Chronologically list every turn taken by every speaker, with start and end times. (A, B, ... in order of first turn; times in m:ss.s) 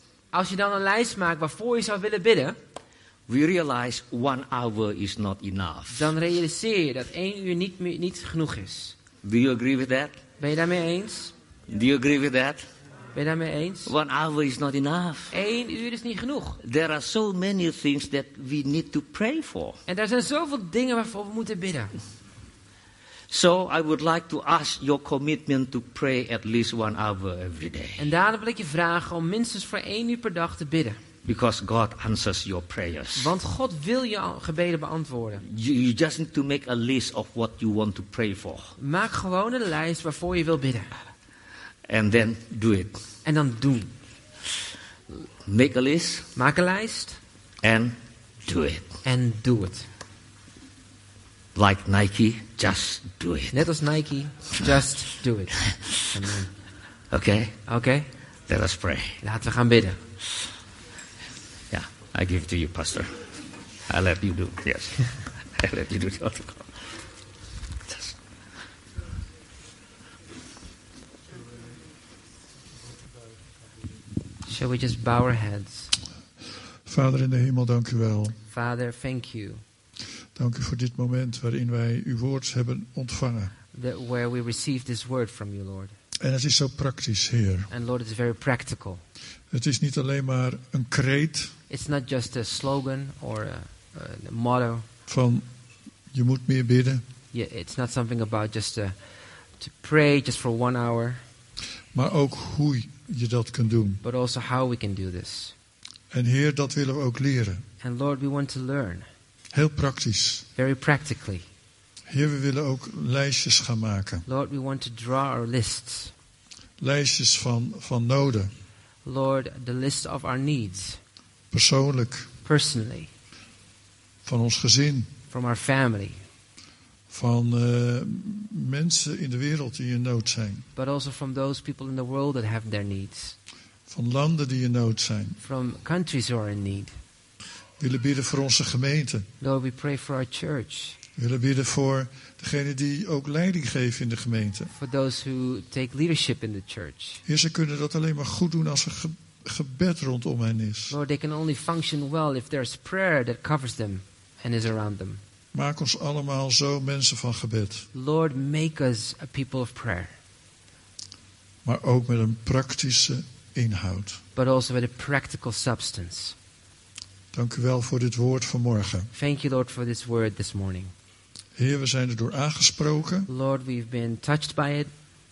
0:00.3-0:02.6 A
0:03.3-0:06.1 B
0:05.9-0:09.0 A
0:09.2-0:10.2 B
0:10.4-0:11.3 A
0:11.7-0:12.6 B
0:13.2-0:13.9 A
0:13.9-0:15.3 B
0:15.3-0:16.6 A
0:16.6-0:19.8 B
0:19.9-0:21.9 A
0:23.3-0:28.0 B
0:28.0-0:31.0 A
0:31.2-0:33.3 B
0:33.2-0:35.4 A
0:35.4-0:38.8 B
0:38.8-0:40.9 A
0:41.9-0:43.0 B
0:43.2-0:43.9 A
0:45.4-0:46.3 B
0:46.4-0:47.2 A
0:47.6-0:48.9 B
0:49.0-0:49.9 A
0:51.6-0:53.6 B
0:53.5-0:56.5 A
0:57.1-0:57.6 B
0:57.7-0:58.1 A
0:58.5-0:59.2 B
0:59.2-1:00.0 A
1:01.7-1:03.2 B
1:03.9-1:05.0 B
1:05.6-1:06.7 B
1:07.9-1:08.2 B
1:14.5-1:15.9 A
1:16.9-1:18.4 C
1:18.5-1:19.6 A
1:20.4-1:23.5 C
1:23.7-1:26.0 A
1:26.2-1:27.7 C
1:27.7-1:29.0 A
1:29.5-1:31.5 C
1:31.7-1:34.9 A
1:35.1-1:35.4 C
1:36.1-1:37.0 C
1:37.3-1:39.0 A
1:39.6-1:41.2 A
1:41.9-1:44.0 C
1:44.0-1:45.5 A
1:46.1-1:47.6 C
1:47.8-1:49.1 A
1:49.5-1:50.5 C
1:50.6-1:51.4 A
1:52.1-1:54.2 C
1:54.3-1:56.1 A
1:56.8-1:58.5 C
1:59.0-2:01.0 A
2:01.5-2:02.3 C
2:02.4-2:03.1 A
2:04.2-2:05.1 C
2:05.3-2:06.2 A
2:07.1-2:10.7 C
2:10.8-2:13.4 A
2:13.9-2:15.4 C
2:15.4-2:16.9 A
2:17.8-2:19.3 C
2:19.4-2:21.0 A
2:21.2-2:24.7 C
2:24.8-2:27.2 A
2:27.3-2:31.0 C
2:30.9-2:35.2 A
2:35.5-2:37.9 C
2:37.9-2:40.1 A
2:41.6-2:44.2 C
2:44.4-2:46.4 A
2:47.3-2:49.1 C
2:49.1-2:50.9 A
2:51.6-2:53.3 C
2:53.3-2:54.9 A